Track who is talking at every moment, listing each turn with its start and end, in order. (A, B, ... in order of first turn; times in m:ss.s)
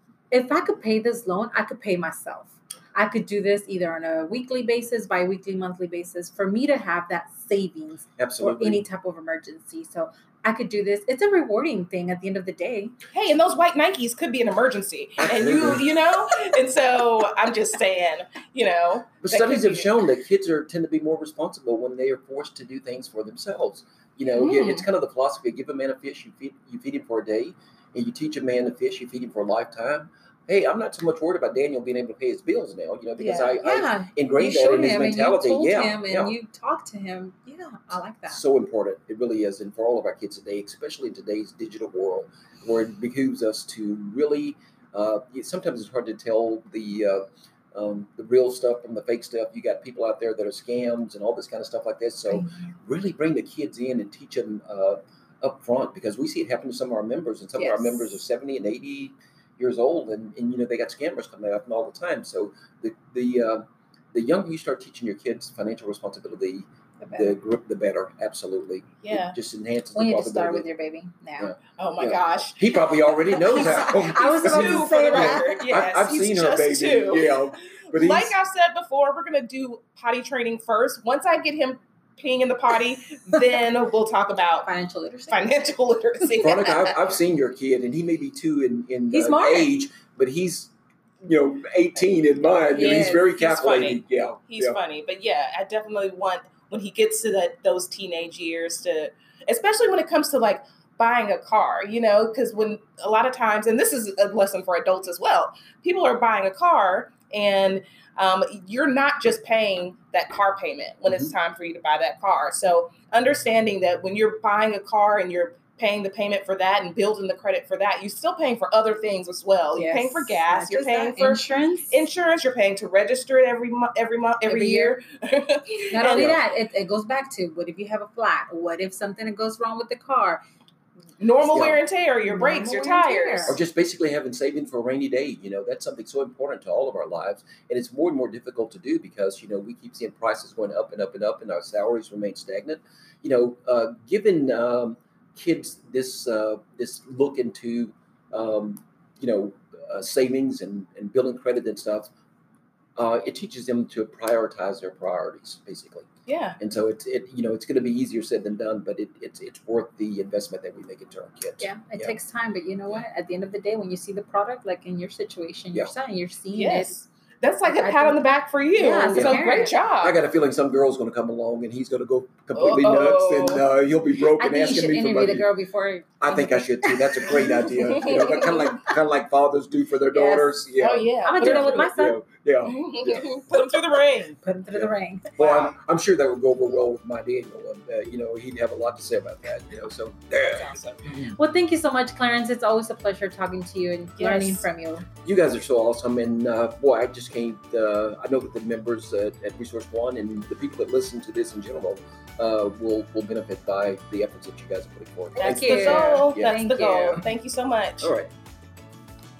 0:00.3-0:12.9 A
0:08.2-0:08.8 B
0:13.1-0:19.9 C
0:15.2-0:15.8 B
0:19.2-0:36.3 B
0:24.4-0:24.8 C
0:33.2-0:33.6 C
0:33.6-0:38.4 A
0:38.3-1:10.7 B
0:57.6-0:58.2 A
1:07.0-1:07.4 A
1:09.0-1:09.3 C
1:09.9-1:11.5 A
1:11.4-1:18.3 B
1:11.7-1:24.7 C
1:13.4-1:15.6 A
1:24.6-1:25.5 A
1:25.3-1:27.0 C
1:26.4-1:34.8 B
1:29.1-1:29.7 A
1:32.7-1:33.4 A
1:32.7-2:06.3 C
1:59.7-2:02.0 A
2:04.5-2:05.0 A
2:05.9-2:10.4 A
2:06.0-2:06.4 B
2:11.2-2:13.6 C
2:11.5-2:11.8 B
2:12.2-2:13.6 A
2:13.5-2:32.1 B
2:33.0-2:36.1 B
2:36.3-2:36.6 C
2:36.6-2:42.1 B
2:41.6-2:47.0 A
2:46.5-2:50.2 C
2:47.6-2:48.2 A
2:48.7-2:49.8 A
2:49.1-2:49.4 B
2:50.0-2:55.5 B
2:52.5-2:53.6 C
2:54.4-2:58.8 A
2:56.2-3:03.4 B
2:57.9-2:58.5 C
3:00.1-3:00.6 A
3:00.8-3:01.9 C
3:01.2-3:02.2 A
3:02.6-3:04.4 C
3:04.4-3:05.7 A
3:04.7-3:11.3 B
3:10.5-3:11.0 C
3:11.3-3:15.0 A
3:14.2-3:14.7 C
3:15.2-3:26.5 B
3:25.4-3:27.2 A
3:25.4-3:28.1 C
3:28.0-3:28.3 B